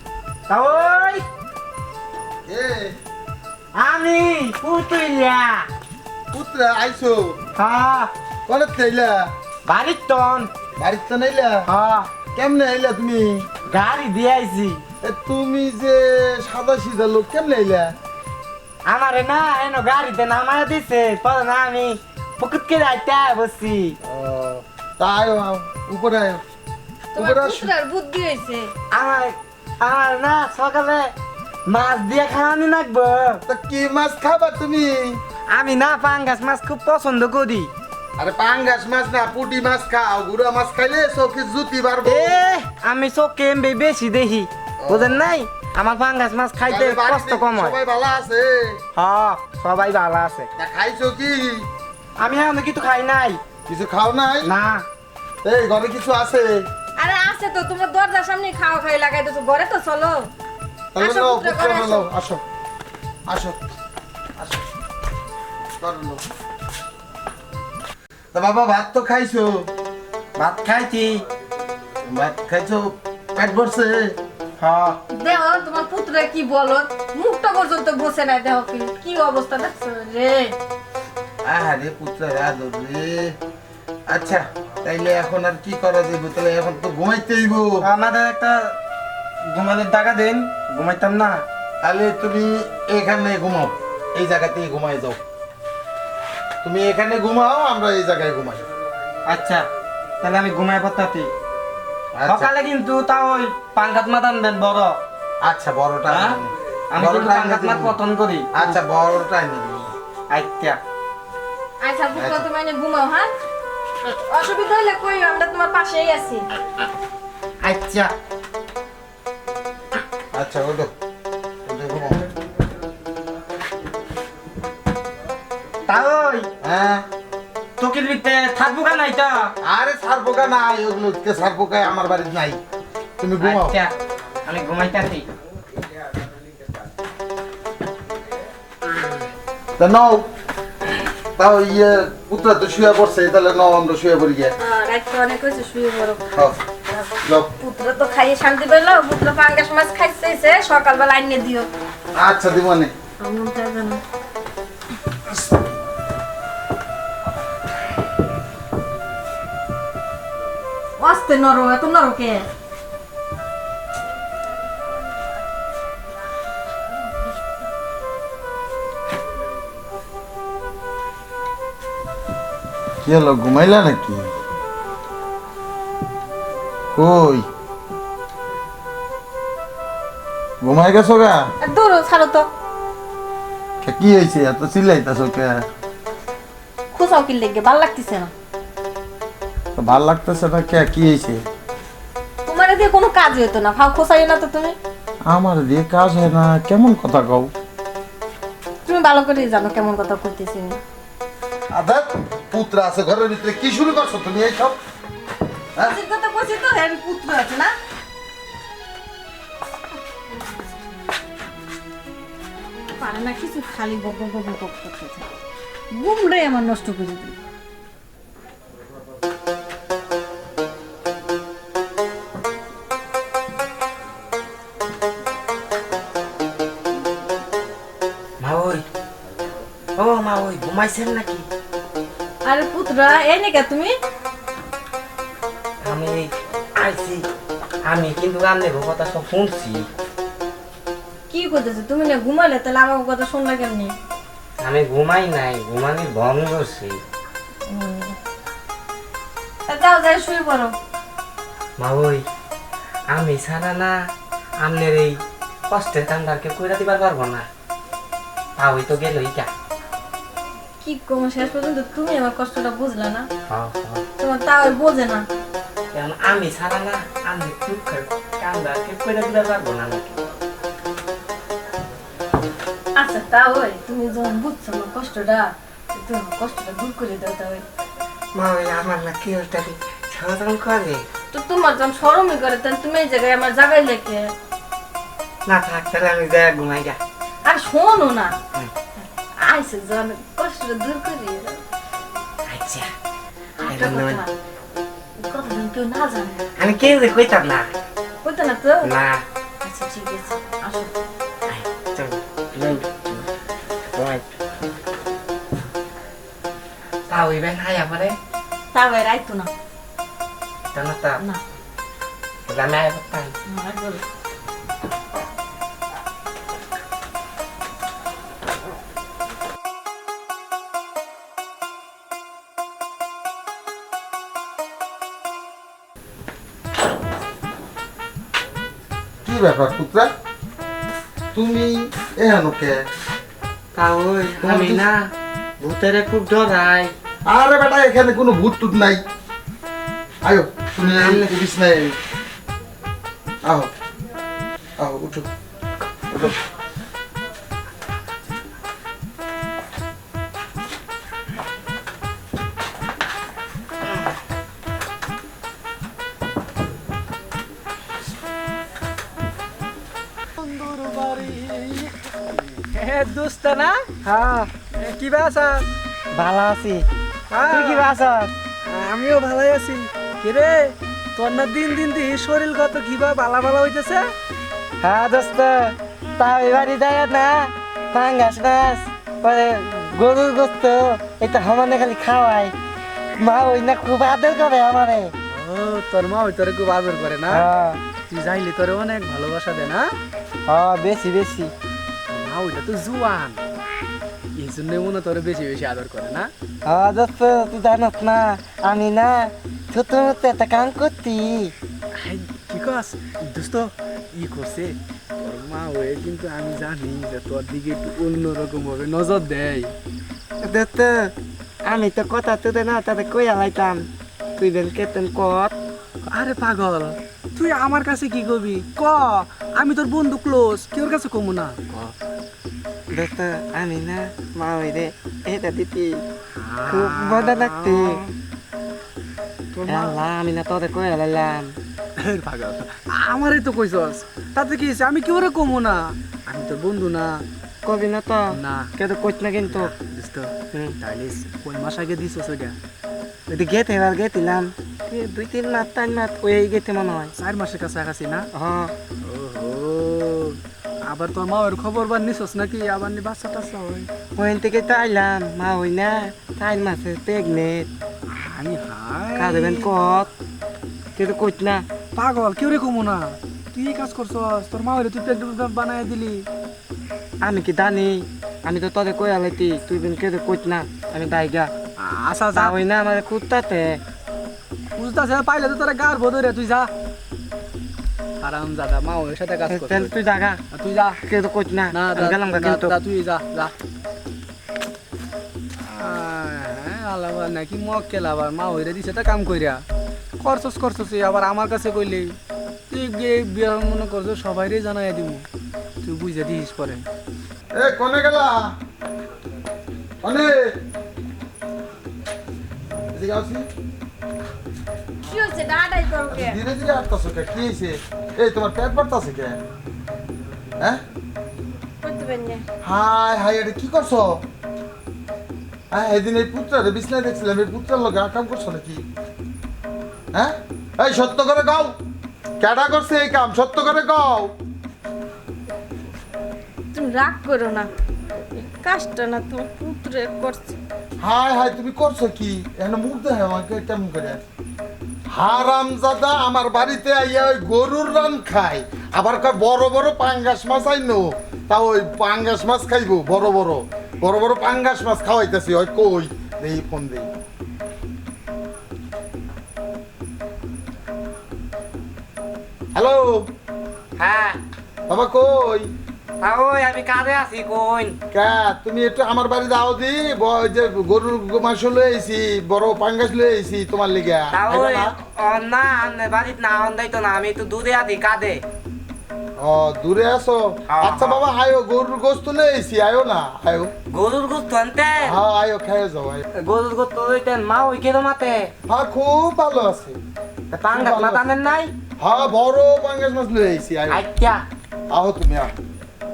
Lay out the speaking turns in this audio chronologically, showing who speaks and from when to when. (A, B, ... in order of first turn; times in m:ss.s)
0:00.5-0:01.2 A
0:02.5-0:03.0 B
0:03.7-0:05.6 A
0:06.3-0:07.4 B
0:07.6-0:08.1 A
0:08.5-0:09.3 B
0:09.7-0:10.5 A
0:10.8-0:11.6 B
0:11.6-0:12.1 A
0:12.3-0:13.5 B
0:13.7-0:14.8 A
0:15.0-0:17.9 B
0:18.8-0:24.0 A
0:24.0-0:26.4 B
0:27.2-0:27.7 B
0:27.3-0:28.7 C
0:28.9-0:31.1 A
0:31.7-0:33.4 A
0:33.4-0:35.2 B
0:35.5-0:37.7 A
0:38.2-0:42.4 B
0:42.0-0:47.8 A
0:44.8-0:45.3 B
0:46.7-0:48.8 B
0:49.0-0:50.5 A
0:50.6-0:51.7 B
0:52.2-0:53.4 A
0:53.7-0:54.5 B
0:54.4-0:54.8 A
0:55.4-0:56.6 B
0:57.0-1:00.2 C
1:00.9-1:02.4 B
1:01.0-1:02.0 C
1:03.3-1:03.6 B
1:04.4-1:04.6 B
1:05.8-1:06.2 B
1:08.3-1:09.7 B
1:10.4-1:11.2 A
1:12.0-1:14.2 B
1:14.6-1:15.0 A
1:15.1-1:20.6 C
1:21.4-1:23.4 B
1:24.1-1:27.7 B
1:27.8-1:28.8 A
1:29.5-1:31.4 A
1:31.8-1:35.2 B
1:36.6-1:38.6 B
1:39.2-1:39.6 A
1:40.2-1:41.3 A
1:42.1-1:42.5 B
1:42.2-1:45.0 A
1:45.4-1:48.0 B
1:46.1-1:46.4 A
1:46.9-1:48.8 A
1:48.5-1:49.9 B
1:50.3-1:50.8 A
1:51.8-1:53.3 C
1:52.1-1:52.5 B
1:54.4-1:56.4 C
1:57.6-1:58.1 A
2:00.3-2:00.9 B
2:01.6-2:02.3 B
2:05.8-2:06.5 A
2:06.6-2:07.0 B
2:07.8-2:09.5 A
2:09.6-2:12.6 B
2:13.2-2:13.8 B
2:13.4-2:13.9 A
2:14.4-2:15.2 A
2:19.8-2:20.2 B
2:21.4-2:24.5 B
2:24.6-2:26.2 C
2:26.3-2:26.6 B
2:27.2-2:27.5 B
2:27.6-2:31.7 C
2:32.1-2:32.9 B
2:33.2-2:34.0 C
2:41.0-2:42.4 C
2:53.0-2:54.3 B
2:56.9-2:57.4 B
3:00.6-3:01.4 B
3:01.6-3:02.5 C
3:03.8-3:05.6 B
3:06.9-3:08.3 C
3:09.8-3:11.4 B
3:12.4-3:14.8 C
3:15.2-3:17.5 B
3:18.8-3:20.8 C
3:21.7-3:24.8 B
3:25.8-3:27.7 C
3:33.0-3:35.2 C
3:35.9-3:37.4 C
3:48.4-3:48.8 A
3:50.0-3:51.5 A
3:52.4-3:53.9 C
3:55.8-3:57.3 A
3:57.8-3:59.9 A
4:01.3-4:03.9 C
4:04.6-4:07.0 A
4:07.7-4:08.2 C
4:09.7-4:10.7 C
4:11.8-4:12.2 A
4:13.1-4:17.5 A
4:18.6-4:19.5 A
4:20.8-4:23.3 C
4:23.5-4:24.0 A
4:24.2-4:25.3 C
4:25.9-4:30.2 A
4:33.0-4:37.6 C
4:38.3-4:41.1 A
4:41.3-4:44.3 C
4:45.4-4:47.0 A
4:47.4-4:48.4 C
4:49.0-4:51.6 C
4:52.5-4:52.9 A
4:53.6-4:54.3 C
4:53.6-4:54.2 A
4:55.2-4:56.4 C
4:56.6-4:57.7 A
4:58.2-4:58.9 C
4:58.8-4:59.2 A
4:59.6-5:00.9 C
5:01.5-5:03.2 A
5:03.9-5:04.2 A
5:07.1-5:08.2 A
5:08.7-5:09.5 C
5:10.7-5:11.2 A
5:12.5-5:13.3 A
5:13.4-5:14.0 C
5:29.2-5:30.1 B
5:31.3-5:32.8 B
5:33.7-5:36.9 A
5:34.4-5:34.9 B
5:37.2-5:39.0 B
5:40.2-5:42.0 B
5:40.8-5:41.3 A
5:43.4-5:43.7 B
5:44.8-5:45.3 B
6:00.4-6:03.8 D
6:04.0-6:04.5 A
6:04.7-6:05.6 D
6:06.1-6:06.8 A
6:07.3-6:07.9 D
6:07.5-6:08.3 A
6:08.7-6:14.1 D
6:14.8-6:22.5 A
6:23.2-6:25.1 A
6:25.3-6:27.4 D
6:27.3-6:27.8 A
6:28.1-6:29.9 D
6:30.5-6:31.5 A
6:32.1-6:33.4 D
6:34.3-6:36.3 D
6:36.6-6:41.5 A
6:41.9-6:49.7 D
6:50.4-6:51.1 A
6:51.6-6:55.5 A
6:56.0-7:01.9 D
7:02.9-7:06.0 A
7:06.4-7:08.0 D
7:06.7-7:08.0 A
7:09.5-7:10.0 D
7:09.6-7:11.6 A
7:12.0-7:17.2 D
7:17.6-7:19.7 A
7:18.3-7:18.7 D
7:19.5-7:22.6 D
7:23.3-7:27.1 A
7:27.2-7:28.3 D
7:28.3-7:28.7 A
7:29.0-7:33.9 D
7:34.2-7:37.7 A
7:38.1-7:39.7 D
7:39.2-7:40.1 A
7:41.0-7:41.6 A
7:41.9-7:46.3 D
7:47.2-7:51.5 A
7:51.8-7:52.6 D
7:52.3-7:53.8 A
7:54.8-7:56.7 D
7:58.2-8:00.0 D
7:59.5-8:00.4 A
8:00.5-8:01.0 D
8:01.0-8:02.8 A
8:01.7-8:03.5 D
8:05.6-8:09.6 D
8:10.2-8:12.2 D
8:12.7-8:15.2 D
8:15.8-8:16.8 D
8:17.5-8:18.5 B
8:20.0-8:20.5 B
8:22.9-8:23.5 B
8:25.0-8:26.3 C
8:26.1-8:29.4 B
8:31.8-8:32.4 C
8:32.6-8:34.2 B
8:35.7-8:38.8 B
8:40.1-8:41.7 B
8:42.4-8:44.3 B
8:46.7-8:47.7 C
8:48.4-8:50.6 C
8:51.0-8:54.2 B
8:55.1-9:07.1 B
9:12.7-9:13.3 B
9:14.0-9:14.4 A
9:14.9-9:15.7 B
9:16.2-9:18.0 A
9:18.1-9:25.0 B
9:24.3-9:28.4 A
9:29.4-9:33.7 B
9:30.7-9:31.2 A
9:33.9-9:35.2 A
9:35.0-9:36.2 B
9:36.3-9:38.5 A
9:38.7-9:40.0 B
9:40.5-9:41.7 A
9:40.7-9:41.3 B
9:42.0-9:44.0 B
9:43.9-9:44.4 A
9:44.9-9:45.5 B